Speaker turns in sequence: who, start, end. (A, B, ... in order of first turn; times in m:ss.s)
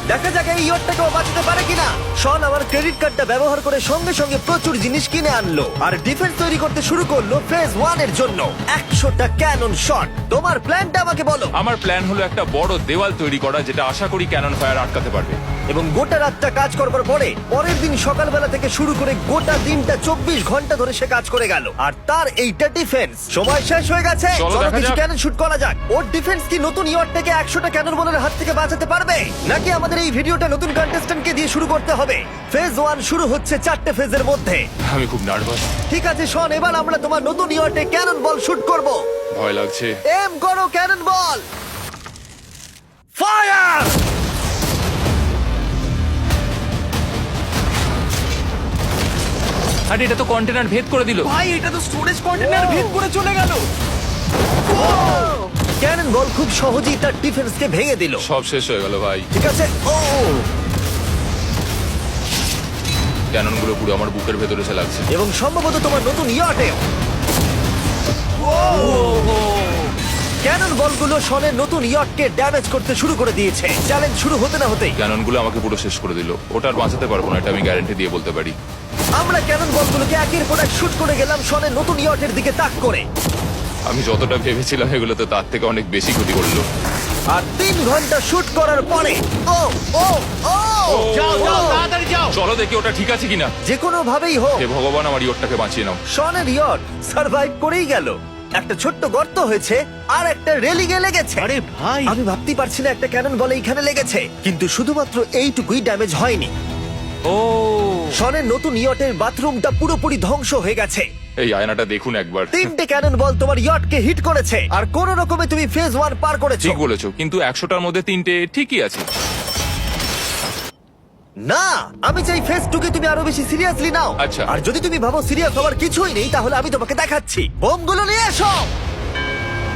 0:00.1-0:11.5 A
0:11.6-0:15.4 B
0:15.7-0:34.6 A
0:24.3-0:25.0 B
0:34.9-0:35.7 B
0:35.9-0:39.0 A
0:39.4-0:40.0 B
0:40.1-0:41.4 A
0:43.2-0:44.0 A
0:49.9-0:51.3 B
0:51.2-0:53.6 C
0:54.7-0:55.4 C
0:55.8-0:58.2 A
0:58.2-0:59.3 B
0:59.4-1:00.5 A
1:03.3-1:05.1 B
1:05.1-1:06.8 A
1:08.7-1:09.4 B
1:10.4-1:15.0 A
1:15.0-1:18.6 B
1:19.2-1:23.0 A
1:23.9-1:26.6 B
1:27.3-1:31.8 A
1:30.9-1:31.8 B
1:31.1-1:32.4 C
1:32.3-1:33.5 B
1:33.6-1:34.6 A
1:34.6-1:36.0 B
1:36.1-1:41.5 A
1:41.4-1:42.2 C
1:42.1-1:46.5 A
1:47.3-1:48.1 B
1:48.2-1:51.0 A
1:51.4-1:52.7 B
1:52.5-1:56.8 A
1:56.6-1:59.0 B
2:01.5-2:08.7 A
2:04.2-2:04.5 B